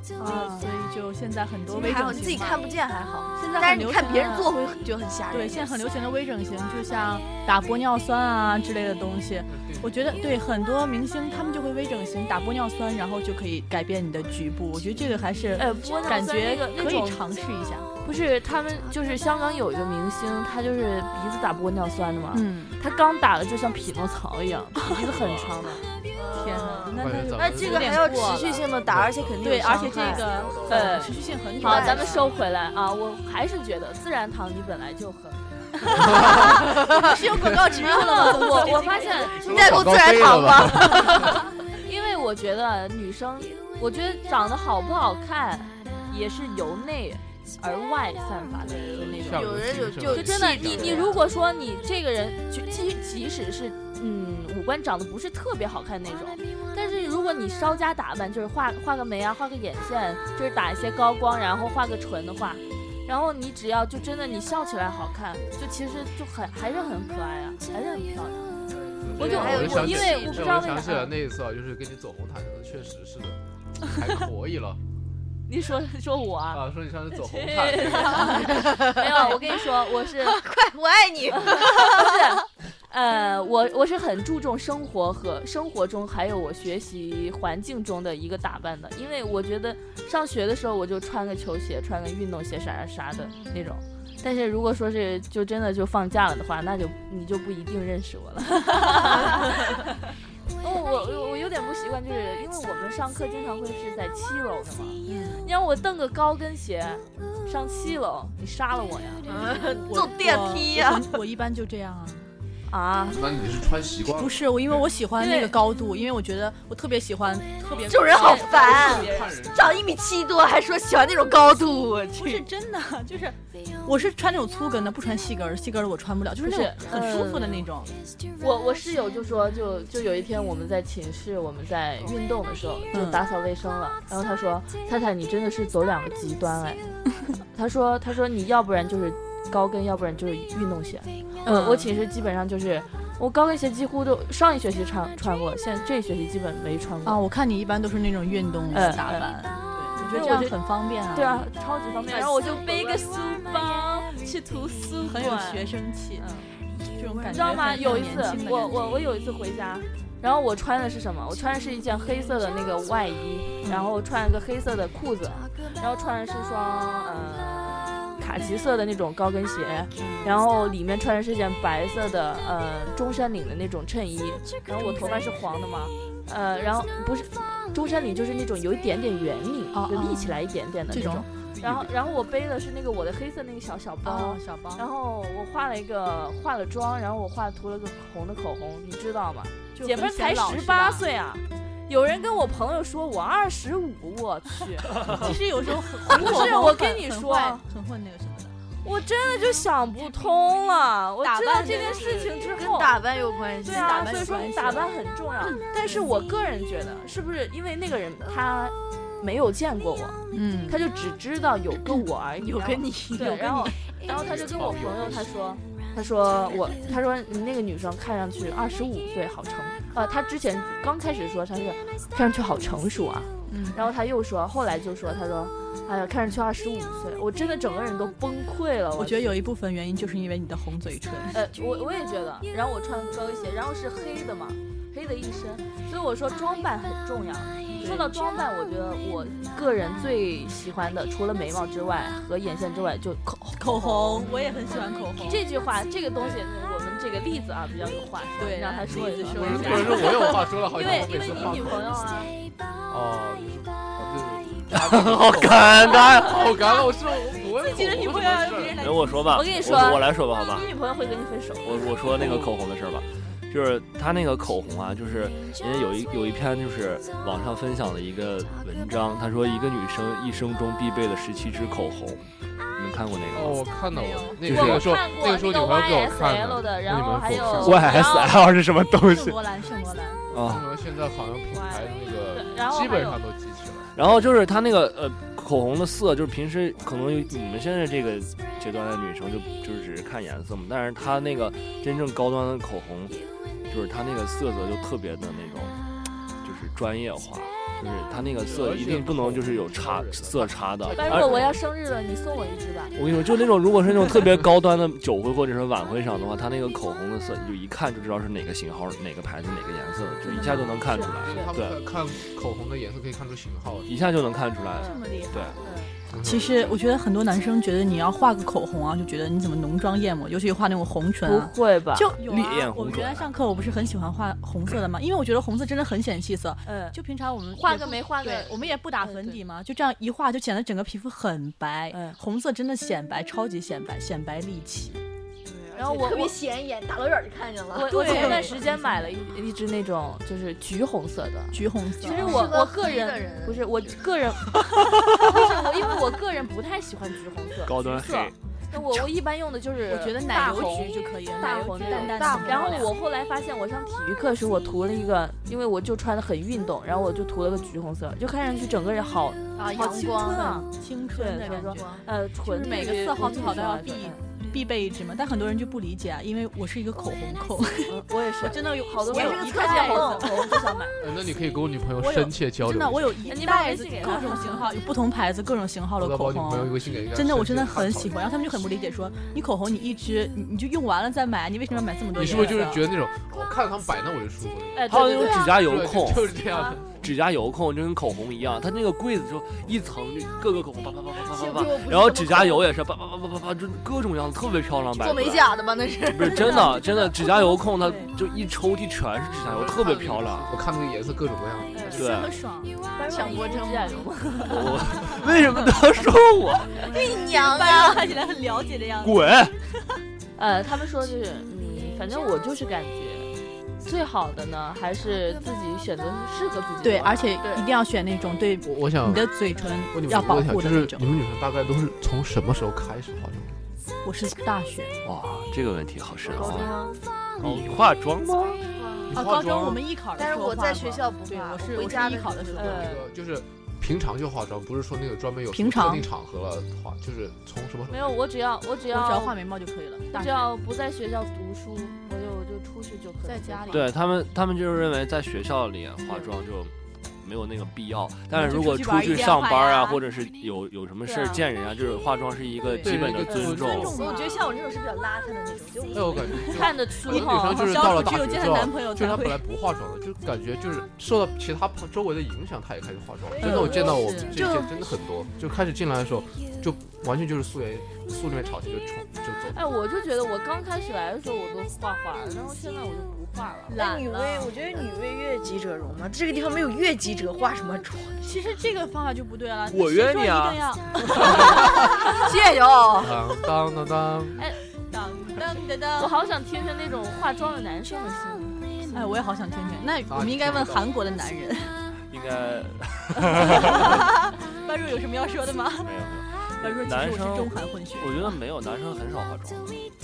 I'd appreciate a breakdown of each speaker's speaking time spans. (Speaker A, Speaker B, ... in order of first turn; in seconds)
Speaker A: 0.2-2.6, 3.4-4.5, 5.3-17.9, 22.3-22.8, 26.3-28.6, 29.4-32.3, 35.9-39.8, 105.1-105.5, 109.3-112.3, 114.2-118.7, 122.2-127.9, 132.9-133.2, 141.4-141.9, 147.0-151.5, 155.1-156.3, 156.9-159.0, 163.6-163.9, 170.0-170.4, 174.8-175.2, 179.7-181.3, 184.0-184.9, 189.7-191.1, 195.0-198.6, 201.2-202.3, 203.7-204.9, 205.4-206.1, 210.3-210.8, 223.5-223.8, 229.0-231.4, 237.8-238.2, 243.6-245.4, 248.4-251.8, 257.6-259.6, 273.9-274.5, 279.0-280.2, 310.3-311.1, 314.8-315.6, 316.2-335.0, 337.9-338.6, 341.5-342.5, 349.9-352.9, 359.6-370.6, 372.0-382.8, 396.4-398.1, 401.9-405.2, 406.8-410.0, 416.8-421.1, 424.0-425.0, 429.1-432.9, 435.5-436.1, 438.9-440.5, 443.2-443.9, 448.3-450.0, 452.6-453.0, 453.6-454.4, 457.1-459.4, 463.4-464.7, 473.7-474.5, 478.2-481.4, 484.8-486.1, 488.9-491.8, 493.2-498.4
Speaker B: 0.2-0.7, 15.6-17.2, 18.0-25.9, 30.7-36.7, 37.8-39.6, 41.8-49.4, 50.1-68.6, 69.2-71.1, 75.5-80.4, 81.3-109.4, 112.7-113.2, 115.2-115.6, 118.0-119.4, 126.4-127.7, 128.4-136.9, 137.4-147.2, 148.7-149.4, 150.0-150.6, 151.1-156.5, 157.3-195.4, 196.1-197.7, 198.8-203.0, 203.6-229.4, 231.3-244.4, 245.2-252.3, 259.3-262.4, 274.5-278.5, 281.5-283.2, 300.9-302.9, 310.9-311.5, 314.8-315.0, 315.6-315.9, 321.2-322.1, 326.6-327.0, 327.5-329.4, 331.9-332.2, 335.8-336.4, 337.7-364.2, 367.9-371.0, 373.2-374.8, 384.8-385.7, 386.5-386.8, 401.7-402.1, 403.0-405.2, 410.4-413.3, 413.8-417.4, 419.6-419.9, 432.6-433.1, 437.9-439.4, 440.1-443.9, 446.1-446.3, 451.1-451.4, 453.3-453.6, 456.4-457.8, 469.5-473.8, 484.4-484.6, 486.0-489.1
Speaker C: 1.7-5.8, 26.1-30.3, 31.6-32.4, 36.5-37.2, 37.9-41.4, 49.0-51.2, 69.2-70.6, 78.4-82.2, 109.3-111.1, 117.8-122.5, 152.1-153.1, 156.9-158.0, 202.2-204.1, 212.4-213.9, 335.4-339.1, 342.0-343.8, 351.8-352.9, 359.6-360.6, 361.5-362.0, 369.1-370.4, 391.3-392.7, 395.0-396.9, 406.8-408.2, 426.3-427.0, 428.7-429.1, 430.2-432.8, 454.0-456.5, 463.3-464.4, 473.8-478.4, 481.2-483.2
Speaker D: 9.5-10.4, 26.9-28.1, 28.9-31.3, 36.0-36.7, 39.4-41.4, 48.9-51.2, 68.7-74.8, 76.5-78.6, 113.1-114.9, 118.5-120.0, 181.6-181.9, 214.1-215.3, 248.9-252.0, 252.9-258.9, 262.2-262.5, 273.3-278.0, 280.4-283.9, 298.4-301.6, 311.2-313.9, 316.1-316.8, 371.0-373.2, 376.0-378.2, 382.1-387.0, 399.4-402.1, 418.6-419.4, 419.9-423.6, 427.4-427.8, 429.1-429.8, 432.7-438.2, 452.8-454.0, 455.9-469.6, 481.1-482.0, 483.0-484.4, 490.1-490.9
Speaker E: 24.9-25.6, 254.7-256.6, 258.8-260.7, 261.6-273.6, 274.5-274.9, 277.5-279.4, 280.3-280.7, 284.0-293.2, 293.7-295.7, 296.4-301.6, 302.9-311.8, 313.9-315.6, 322.2-323.3, 347.6-349.1, 384.9-386.4, 386.9-395.5, 396.1-400.5, 401.9-402.4, 404.4-406.8, 409.0-409.5, 425.0-426.7, 427.4-428.6, 443.7-453.9, 479.7-480.6, 492.1-494.1, 495.8-499.9